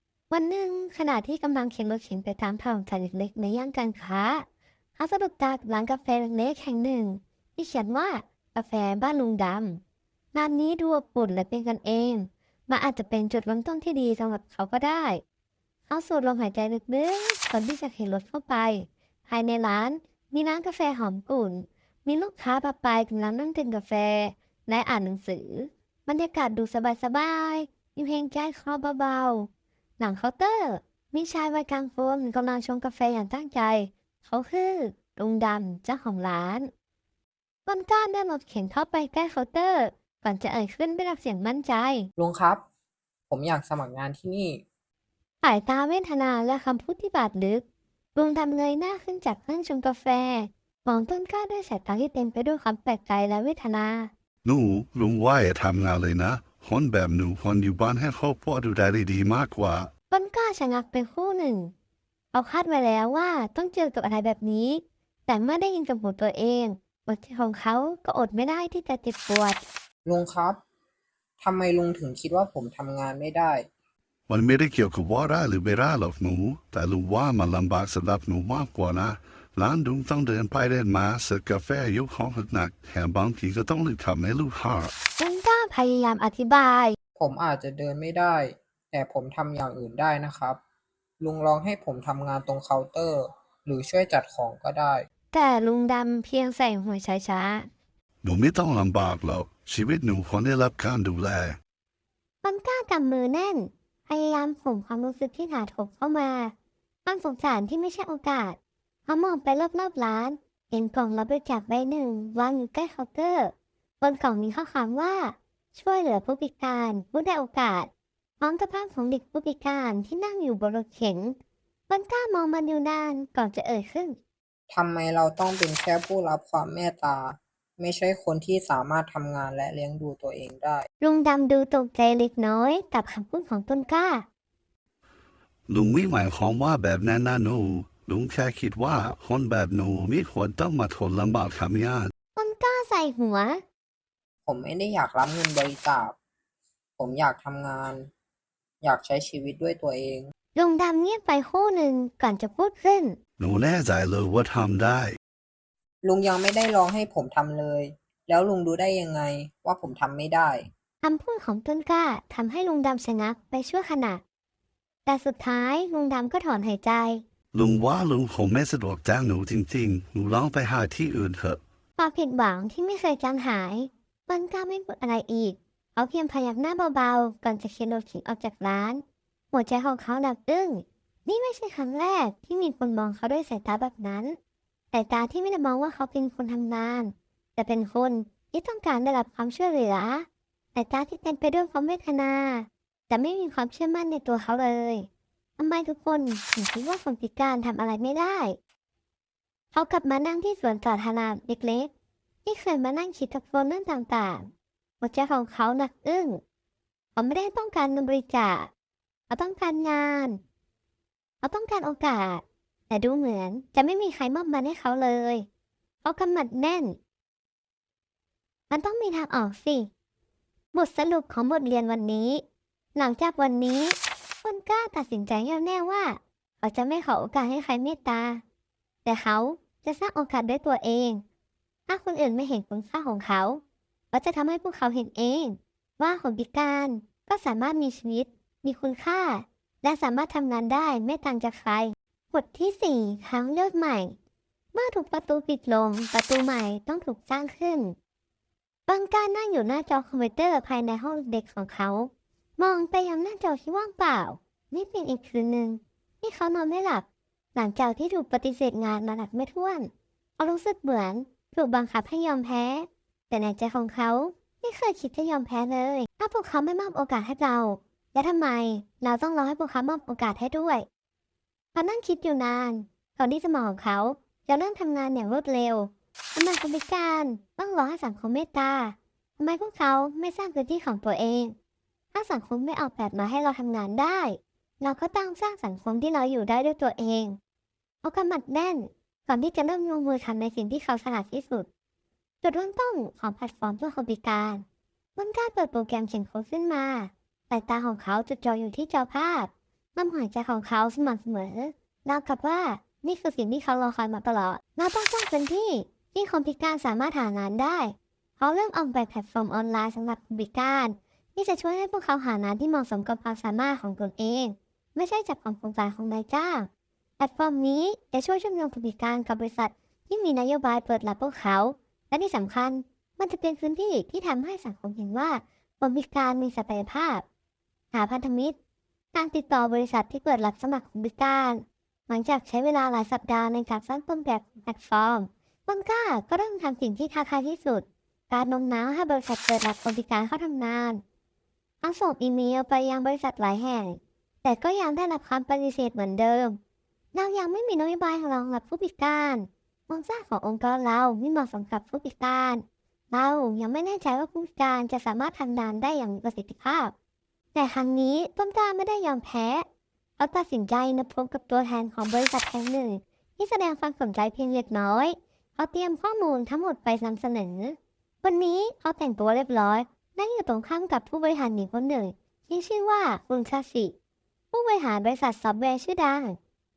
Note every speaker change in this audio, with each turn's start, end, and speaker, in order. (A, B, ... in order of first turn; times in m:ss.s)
0:00.3-0:04.4 A
0:05.0-0:09.8 A
0:10.3-0:15.2 A
0:15.9-0:29.5 A
0:30.0-0:36.7 A
0:37.7-0:42.1 A
0:42.2-0:42.6 B
0:43.3-0:44.6 B
0:45.4-0:47.6 A
0:48.1-0:54.1 A
0:54.4-0:59.9 C
1:00.1-1:01.7 A
1:02.3-1:09.6 A
1:10.1-1:10.6 B
1:11.4-1:13.6 B
1:14.3-1:24.9 C
1:25.2-1:27.0 A
1:27.2-1:30.6 B
1:31.2-1:35.0 B
1:35.3-1:37.7 A
1:38.2-1:41.6 C
1:42.4-1:46.5 A
1:47.0-1:57.9 A
1:58.4-2:01.4 A
2:01.9-2:04.2 A
2:04.7-2:10.9 B
2:11.0-2:14.2 A
2:15.7-2:22.1 C
2:22.4-2:23.6 A
2:24.4-2:26.1 B
2:27.0-2:28.1 B
2:28.8-2:30.3 B
2:30.6-2:33.2 A
2:33.4-2:35.2 C
2:36.0-2:40.7 B
2:41.0-2:44.2 A
2:45.0-2:47.2 A
2:47.5-2:51.6 C
2:52.0-3:04.4 A
3:04.9-3:15.1 A
3:15.6-3:18.6 A
3:19.7-3:21.9 A
3:22.4-3:24.5 A
3:25.0-3:26.4 A
3:27.2-3:28.7 A
3:29.3-3:30.4 A
3:31.4-3:35.4 A
3:36.0-3:36.9 A
3:38.7-3:39.9 A
3:40.7-3:42.4 A
3:43.0-3:48.4 A
3:49.0-3:51.2 A
3:51.9-3:53.6 A
3:54.1-4:04.1 A
4:04.7-4:08.0 A
4:08.9-4:30.8 A
4:31.7-4:41.5 A
4:42.1-4:47.4 A
4:48.0-4:51.7 A
4:52.4-4:54.6 A
4:55.2-5:16.7 A
5:17.2-5:27.2 A
5:27.9-5:28.6 A
5:29.1-5:41.0 A
5:41.8-5:46.6 A
5:47.1-5:56.9 A
5:57.5-5:59.6 A
6:00.2-6:13.9 A
6:14.5-6:16.4 A